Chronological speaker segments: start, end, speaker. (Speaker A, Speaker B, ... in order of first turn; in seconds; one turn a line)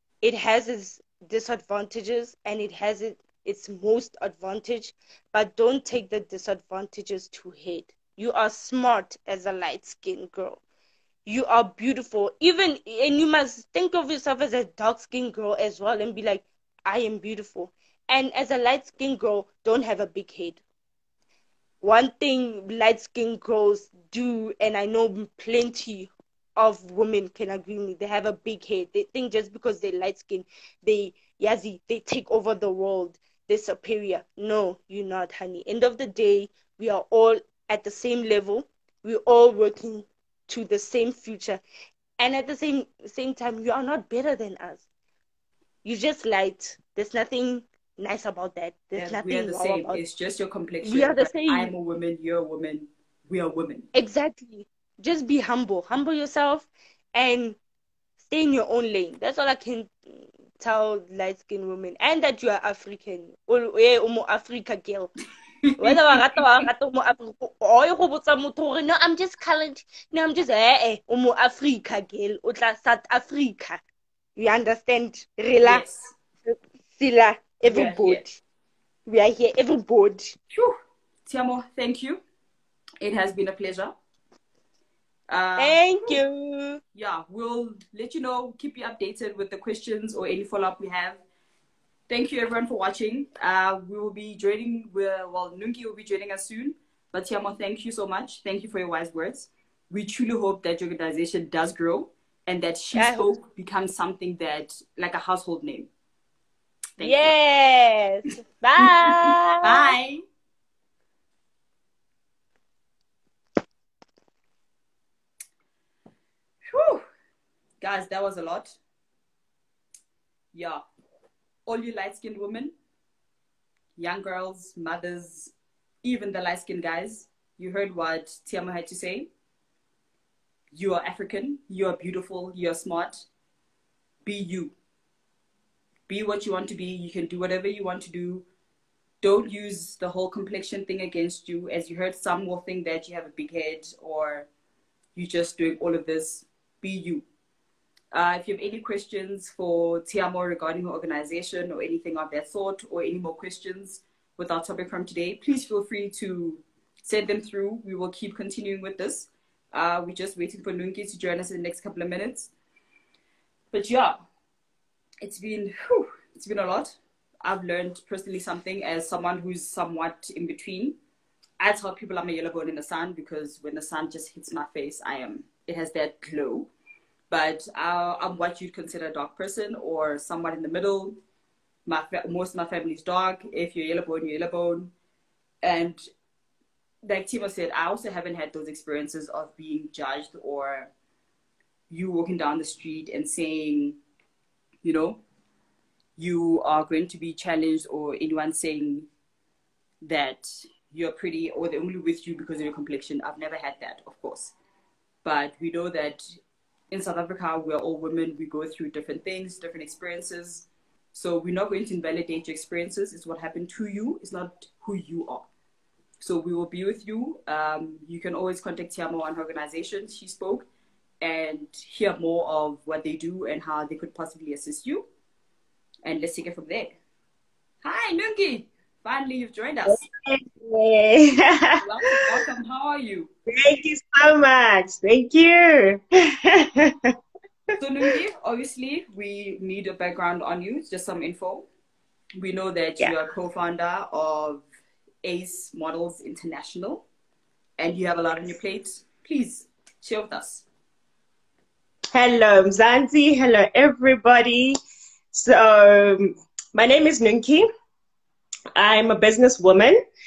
Speaker A: 0.2-10.6
Speaker A: 11.2-20.6
Speaker A: 21.8-41.6
Speaker A: 42.2-44.9
Speaker A: 45.8-50.0
Speaker B: 49.0-53.9
Speaker A: 50.8-51.7
Speaker A: 53.9-57.6
Speaker A: 58.2-65.1
Speaker B: 65.7-66.2
Speaker A: 65.8-73.8
Speaker A: 74.4-75.8
Speaker B: 75.6-76.1
Speaker A: 76.5-78.4
Speaker B: 77.7-78.2
Speaker A: 79.1-80.3
Speaker B: 80.5-82.2
Speaker B: 83.0-84.0
Speaker B: 85.3-86.2
Speaker A: 85.6-86.8
Speaker B: 86.9-91.2
Speaker B: 92.1-105.9
Speaker A: 102.9-103.3
Speaker B: 107.0-107.3
Speaker A: 107.0-110.0
Speaker B: 108.8-110.2
Speaker B: 116.7-117.0
Speaker B: 117.8-118.8
Speaker B: 120.5-120.8
Speaker B: 121.7-122.7
Speaker B: 124.0-129.3
Speaker B: 130.7-133.3
Speaker B: 134.2-134.7
Speaker B: 136.1-138.5
Speaker B: 139.2-144.5
Speaker B: 145.2-147.2
Speaker B: 148.1-162.5
Speaker B: 163.7-164.2
Speaker B: 165.2-171.0
Speaker B: 171.6-176.7
Speaker B: 177.3-181.2
Speaker B: 181.9-184.9
Speaker B: 185.6-186.0
Speaker B: 187.0-190.9
Speaker B: 191.9-194.0
Speaker B: 194.8-195.2
Speaker B: 196.2-199.1
Speaker B: 200.0-204.5
Speaker B: 205.2-206.4
Speaker B: 206.9-215.5
Speaker B: 216.2-220.7
Speaker B: 221.2-225.1
Speaker B: 226.0-226.9
Speaker B: 227.8-230.1
Speaker C: 229.9-232.4
Speaker B: 231.8-233.3
Speaker C: 233.5-237.2
Speaker C: 237.7-238.1
Speaker B: 237.8-241.7
Speaker B: 242.4-244.7
Speaker B: 245.2-247.1
Speaker B: 247.8-250.7
Speaker C: 252.1-254.8
Speaker C: 255.3-257.7
Speaker C: 258.8-260.0